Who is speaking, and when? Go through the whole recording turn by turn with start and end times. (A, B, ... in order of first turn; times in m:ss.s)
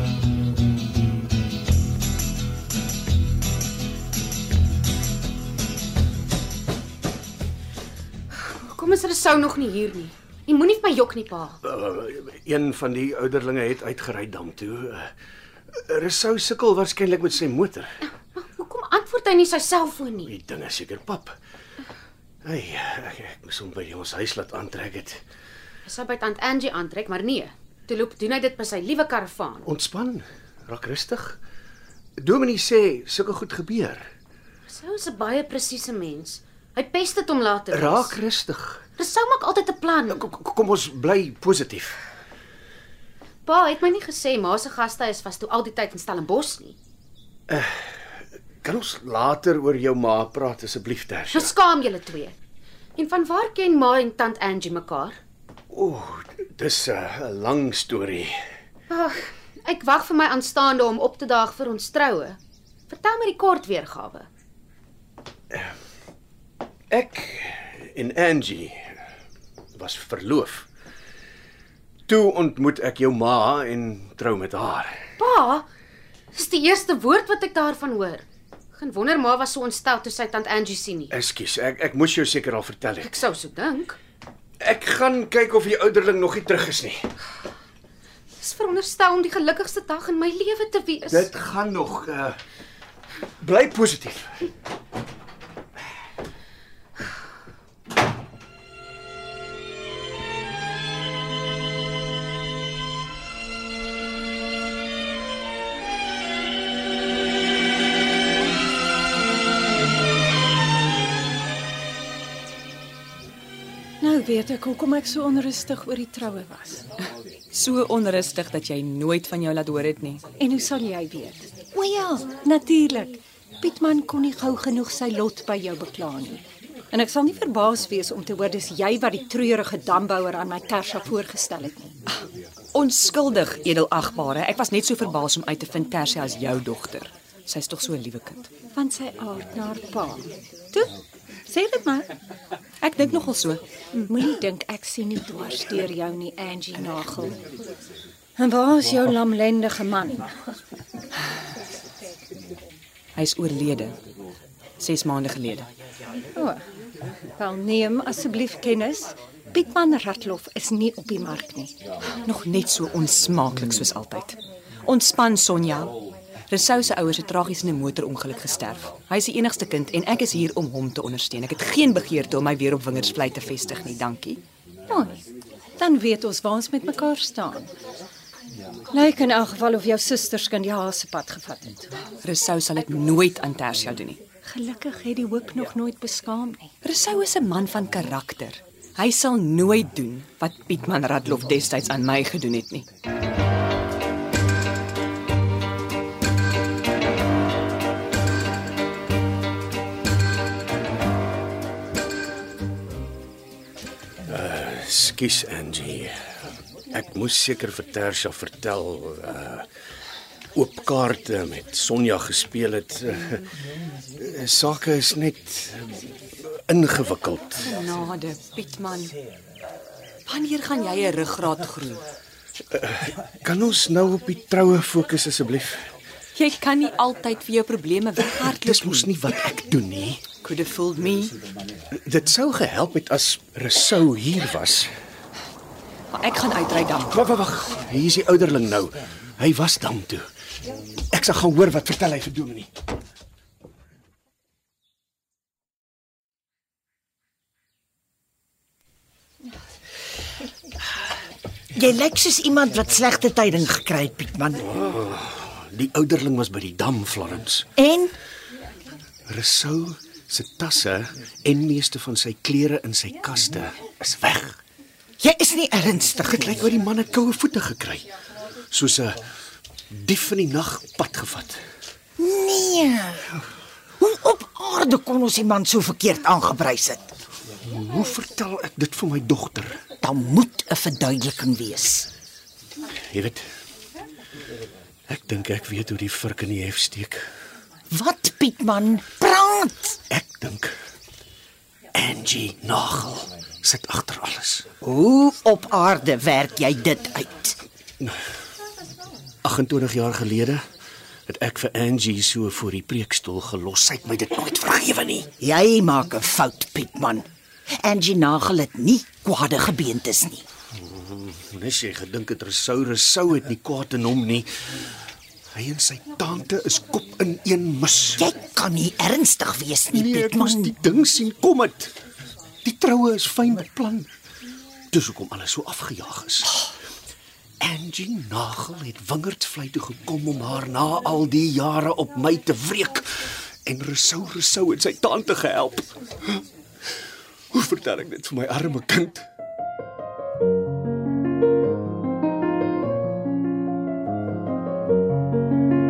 0:08.3-0:11.6 A
0:11.6-0:15.1 B
0:15.9-0:17.9 B
0:18.3-0:20.3 A
0:20.2-0:21.3 B
0:22.4-0:25.2 B
0:25.8-0:29.7 A
0:29.6-0:31.4 B
0:32.2-0:34.0 B
0:34.6-0:38.2 A
0:37.7-0:38.8 B
0:39.0-0:40.2 A
0:40.1-0:42.0 B
0:43.4-0:46.8 A
0:47.5-0:48.0 B
0:48.6-0:51.5 B
0:51.3-0:52.3 A
0:53.0-0:55.2 A
0:55.7-0:58.3 B
0:58.9-1:02.4 A
1:02.9-1:04.3 A
1:06.9-1:08.9 B
1:09.8-1:10.7 B
1:12.1-1:15.0 B
1:15.2-1:15.7 A
1:16.3-1:21.1 A
1:21.1-1:23.1 B
1:23.0-1:24.0 A
1:24.6-1:27.0 B
1:28.4-1:31.3 A
1:31.0-1:32.4 B
1:33.4-1:34.5 B
1:54.0-1:56.8 C
1:57.5-2:00.2 D
2:00.4-2:11.9 C
2:12.7-2:18.5 D
2:18.7-2:20.9 C
2:21.5-2:22.1 C
2:22.8-2:23.6 D
2:24.0-2:27.4 C
2:28.4-2:30.6 C
2:33.2-2:34.0 D
2:34.8-2:35.7 D
2:36.3-2:36.6 C
2:37.4-2:41.8 C
2:42.2-2:45.9 D
2:46.5-2:54.4 D
2:54.9-2:55.2 C
2:55.8-2:57.7 C
2:58.9-3:01.9 C
3:02.2-3:04.2 D
3:04.4-3:06.7 C
3:06.8-3:12.8 D
3:24.2-3:26.1 B
3:26.9-3:29.6 B
3:30.5-3:33.5 B
3:34.2-3:37.7 B
3:37.6-3:39.2 D
3:40.3-3:42.0 D
3:42.7-3:45.8 B
3:46.3-3:49.1 D
3:48.3-3:50.3 B
3:50.4-3:51.4 D
3:51.9-3:54.9 B
3:56.1-3:57.2 D
3:57.1-4:00.3 B
4:01.1-4:02.7 B
4:11.7-4:14.7 E
4:14.7-4:17.7 B
4:17.8-4:18.1 E
4:19.3-4:24.6 B
4:25.2-4:26.6 E
4:26.4-4:28.1 B
4:28.7-4:29.2 B
4:29.9-4:31.6 B
4:32.2-4:33.3 E
4:34.0-4:37.1 E
4:37.6-4:39.8 B
4:40.0-4:42.1 E
4:43.1-4:43.4 B
4:45.1-4:47.2 B
4:47.9-4:50.0 E
4:50.1-4:50.7 B
4:51.9-4:54.7 B
4:54.8-4:57.6 E
4:59.4-5:00.6 B
5:01.3-5:05.3 B
5:05.4-5:07.3 E
5:07.8-5:10.4 E
5:10.8-5:14.5 B
5:15.5-5:18.2 B
5:18.2-5:20.7 E
5:19.9-5:21.9 B
5:22.6-5:24.1 B
5:24.9-5:26.6 B
5:27.6-5:36.4 B
5:37.5-5:39.2 B